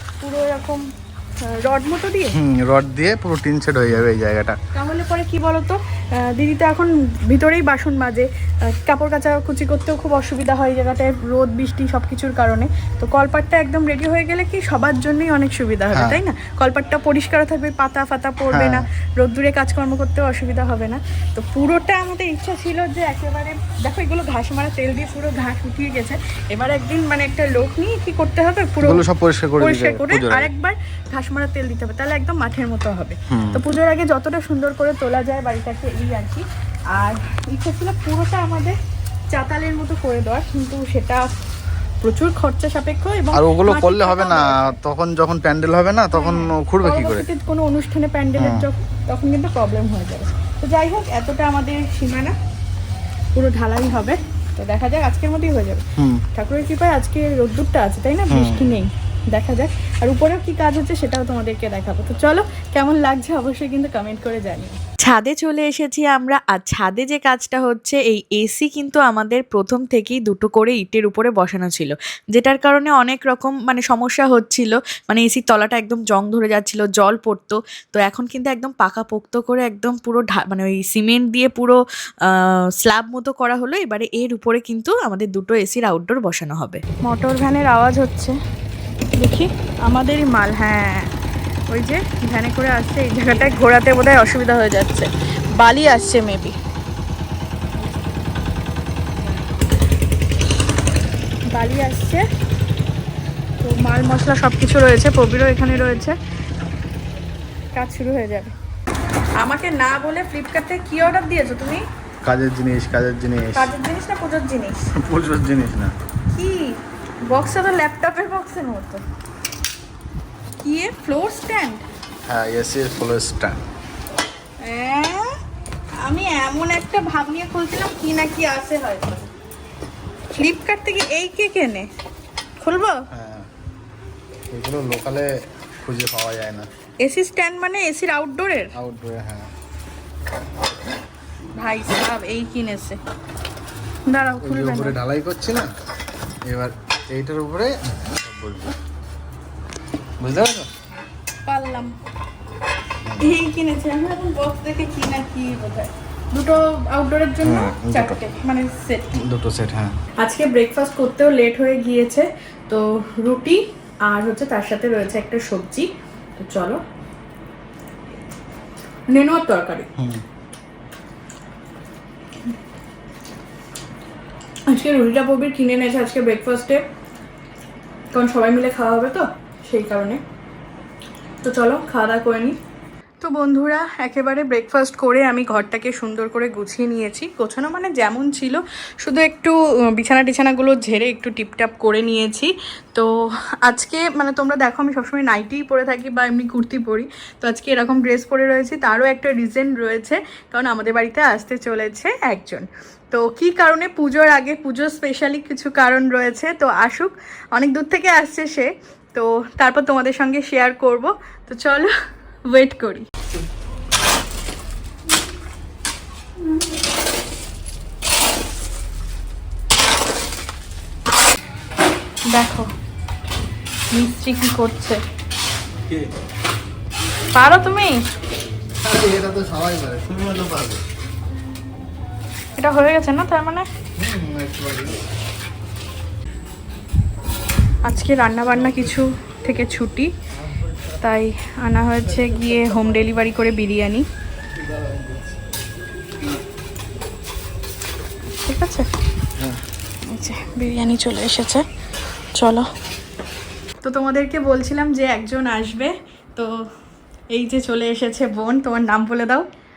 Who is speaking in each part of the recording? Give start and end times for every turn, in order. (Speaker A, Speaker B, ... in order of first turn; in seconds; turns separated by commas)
Speaker A: 0.2-0.8, Speaker A: 1.5-2.4, Speaker B: 2.4-4.6, Speaker A: 4.7-29.1, Speaker B: 15.9-16.2, Speaker B: 18.5-18.9, Speaker B: 28.8-30.5, Speaker A: 29.6-38.8, Speaker B: 33.3-33.6, Speaker A: 39.3-41.3, Speaker A: 42.0-44.8, Speaker B: 43.3-47.3, Speaker A: 46.1-52.4, Speaker B: 48.4-48.6, Speaker A: 53.4-64.8, Speaker B: 58.3-58.8, Speaker C: 65.0-81.8, Speaker A: 74.4-76.7, Speaker A: 78.2-78.5, Speaker C: 82.8-86.8, Speaker A: 87.0-88.4, Speaker A: 89.2-91.1, Speaker A: 91.7-96.5, Speaker A: 101.5-102.2, Speaker A: 103.6-106.2, Speaker A: 107.7-108.5, Speaker A: 109.4-111.8, Speaker B: 112.2-113.7, Speaker A: 113.5-114.8, Speaker B: 115.0-115.9, Speaker A: 116.3-119.0, Speaker A: 120.6-121.8, Speaker B: 122.3-123.6, Speaker A: 124.6-125.4, Speaker A: 126.0-129.3, Speaker A: 130.3-131.9, Speaker A: 132.6-133.0, Speaker B: 133.1-133.5, Speaker B: 134.5-135.3, Speaker B: 135.8-136.7, Speaker A: 137.0-138.7, Speaker B: 138.8-139.5, Speaker A: 141.6-143.0, Speaker A: 144.1-145.0, Speaker B: 144.4-145.7, Speaker B: 146.5-148.8, Speaker B: 150.2-150.7, Speaker A: 151.5-151.9, Speaker B: 153.1-153.3, Speaker A: 153.2-159.1, Speaker B: 157.4-158.2, Speaker B: 159.2-159.9, Speaker A: 160.2-166.8, Speaker A: 169.1-169.9, Speaker B: 170.0-170.2, Speaker A: 174.7-176.8, Speaker A: 178.1-180.2, Speaker A: 181.4-182.6, Speaker A: 183.2-193.1, Speaker A: 193.6-211.9, Speaker A: 212.5-213.1, Speaker A: 222.3-222.7, Speaker A: 223.9-225.0, Speaker A: 227.3-228.0, Speaker B: 228.8-230.8, Speaker A: 232.6-233.7, Speaker B: 234.0-235.0, Speaker A: 237.8-240.1, Speaker A: 241.0-244.1, Speaker B: 242.3-242.7, Speaker B: 244.6-245.4, Speaker A: 248.4-248.9, Speaker A: 250.1-251.7, Speaker A: 252.3-252.7, Speaker A: 253.8-256.6, Speaker A: 257.3-259.5